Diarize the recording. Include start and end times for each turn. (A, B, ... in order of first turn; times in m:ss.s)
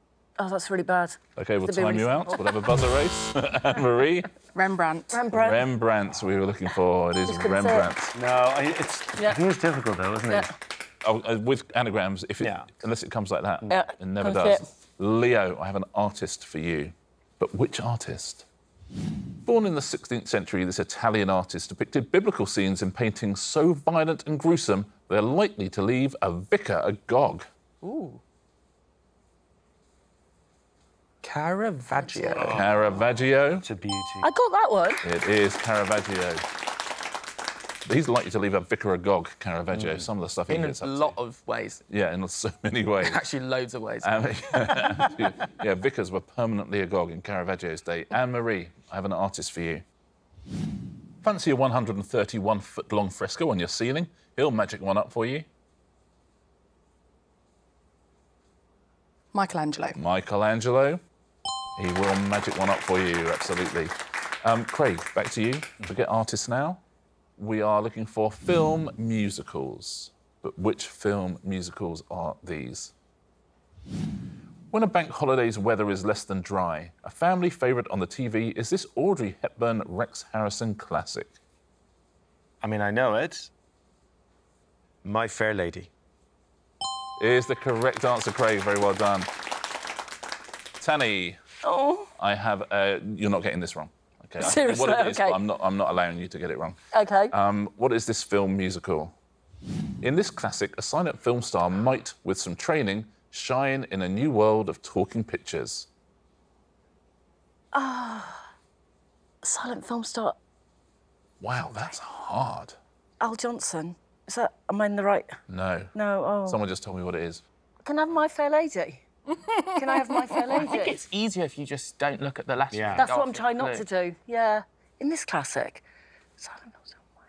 0:00.4-0:02.6 A
0:01.4-0:04.3 B
0:04.5-0:05.2 C
0:05.1-0:05.7 A
0:05.3-0:08.2 B
0:07.2-0:07.9 A
0:08.1-0:10.5 D
0:11.0-0:18.4 B
0:12.4-0:12.7 D
0:13.7-0:14.6 A
0:19.4-0:27.5 B
0:27.8-0:28.2 E
0:31.2-0:32.6 E
0:32.3-0:33.0 D
0:32.4-0:33.7 B
0:33.6-0:34.3 D
0:34.2-0:35.0 A
0:35.0-0:36.4 B
0:37.8-0:41.2 B
0:39.7-0:40.1 D
0:40.5-0:41.8 E
0:41.9-0:43.2 B
0:43.0-0:45.1 E
0:44.0-0:49.8 B
0:51.2-0:55.5 B
0:59.3-1:00.0 C
0:59.9-1:01.0 B
1:01.8-1:06.8 B
1:07.4-1:12.9 B
1:14.7-1:21.3 B
1:22.6-1:23.5 D
1:25.0-1:25.9 D
1:27.2-1:29.3 B
1:30.8-1:31.4 B
1:31.6-1:32.1 A
1:32.2-1:36.8 B
1:34.4-1:35.4 A
1:36.9-1:37.3 A
1:37.3-1:39.1 B
1:40.0-1:45.9 B
1:47.7-1:48.4 A
1:49.4-1:50.4 A
1:51.4-1:52.8 B
1:53.2-1:55.3 A
1:55.5-1:55.9 B
1:55.9-1:56.6 A
1:56.4-1:57.4 B
1:57.8-1:59.0 A
1:59.5-2:00.2 C
1:59.6-2:01.0 A
2:00.6-2:03.8 E
2:02.7-2:03.1 D
2:03.0-2:05.8 A
2:06.4-2:07.0 A